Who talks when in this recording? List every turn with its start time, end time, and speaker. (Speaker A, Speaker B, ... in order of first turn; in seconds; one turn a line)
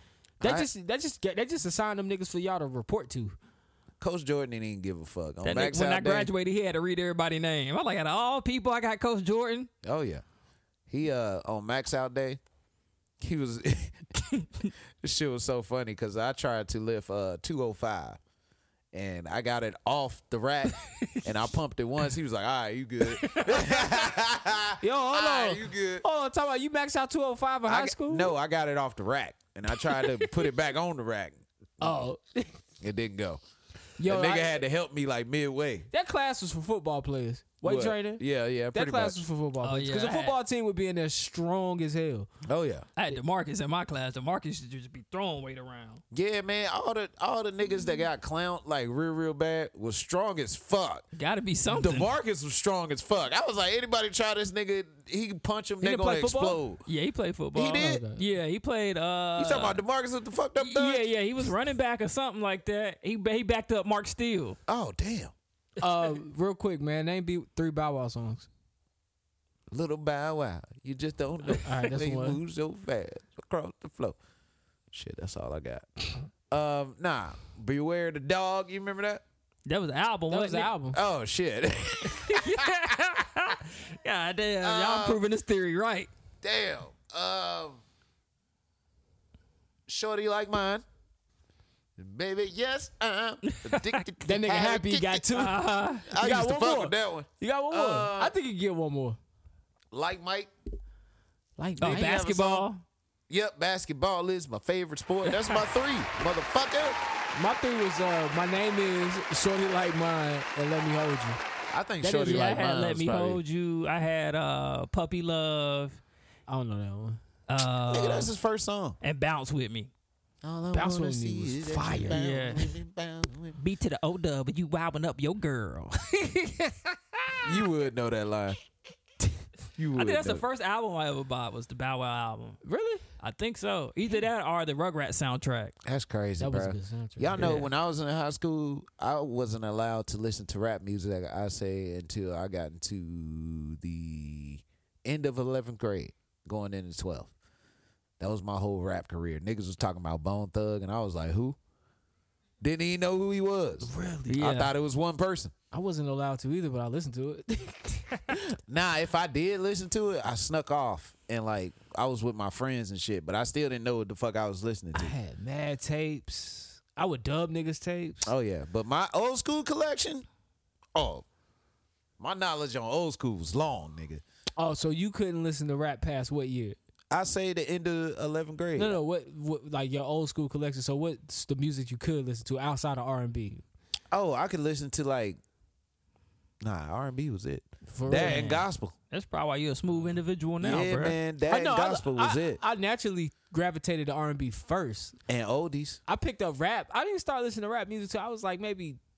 Speaker A: 0.4-0.7
Speaker B: 0.4-3.4
Speaker A: 4.0-6.3
Speaker C: 5.4-9.7
Speaker A: 9.8-10.2
Speaker A: 10.9-12.4
Speaker A: 13.2-14.1
Speaker A: 15.0-18.2
Speaker A: 18.9-26.0
Speaker C: 23.2-23.6
Speaker B: 24.8-28.3
Speaker A: 27.6-32.0
Speaker B: 31.8-32.5
Speaker A: 32.8-33.4
Speaker B: 34.0-34.6
Speaker A: 34.0-35.9
Speaker B: 35.9-38.2
Speaker A: 37.6-39.2
Speaker B: 38.7-42.3
Speaker C: 39.6-40.4
Speaker A: 42.4-42.8
Speaker C: 43.0-46.0
Speaker A: 46.1-51.0
Speaker C: 51.1-52.1
Speaker A: 51.7-56.8
Speaker B: 55.8-56.6
Speaker C: 56.9-59.8
Speaker A: 57.5-58.0
Speaker B: 57.7-58.2
Speaker A: 59.4-61.1
Speaker C: 60.6-64.6
Speaker A: 64.7-65.3
Speaker B: 65.8-68.5
Speaker A: 69.7-74.2
Speaker B: 71.6-72.4
Speaker A: 74.9-75.9
Speaker A: 76.5-79.2
Speaker C: 79.7-80.7
Speaker B: 80.3-81.0
Speaker A: 80.9-82.9
Speaker C: 82.2-86.1
Speaker A: 84.6-85.2
Speaker A: 86.4-87.8
Speaker A: 89.9-90.8
Speaker A: 92.0-95.4
Speaker C: 93.5-94.0
Speaker B: 94.2-95.6
Speaker C: 95.3-96.0
Speaker A: 96.0-98.3
Speaker B: 96.1-99.2
Speaker A: 99.9-100.5
Speaker B: 101.6-102.2
Speaker A: 101.8-102.7
Speaker C: 101.8-102.8
Speaker A: 103.3-107.0
Speaker C: 105.2-105.6
Speaker B: 107.3-111.4
Speaker A: 111.7-113.4
Speaker B: 112.0-112.4
Speaker C: 112.1-116.0
Speaker B: 116.5-117.2
Speaker C: 117.5-118.3
Speaker A: 117.9-119.0
Speaker C: 119.0-119.9
Speaker A: 120.4-123.6
Speaker B: 120.7-122.2
Speaker C: 122.1-122.7
Speaker C: 123.6-126.4
Speaker A: 127.4-128.6
Speaker A: 129.8-130.4
Speaker C: 129.9-132.6
Speaker B: 132.6-133.0
Speaker C: 133.2-135.7
Speaker A: 135.8-147.3
Speaker B: 136.4-137.6
Speaker C: 137.4-137.7
Speaker A: 148.2-151.6
Speaker A: 152.6-155.5
Speaker B: 153.9-154.3
Speaker C: 154.2-154.7
Speaker B: 155.7-158.4
Speaker A: 158.5-165.1
Speaker B: 164.9-168.3
Speaker A: 168.2-170.2
Speaker A: 170.9-171.2
Speaker A: 172.2-174.2
Speaker B: 174.6-176.8
Speaker A: 177.1-179.0
Speaker B: 178.8-183.6
Speaker A: 184.1-185.4
Speaker A: 186.6-188.9
Speaker B: 187.9-188.5
Speaker C: 188.2-191.2
Speaker A: 190.6-192.6
Speaker B: 191.5-195.2
Speaker A: 195.3-196.0
Speaker B: 196.1-199.0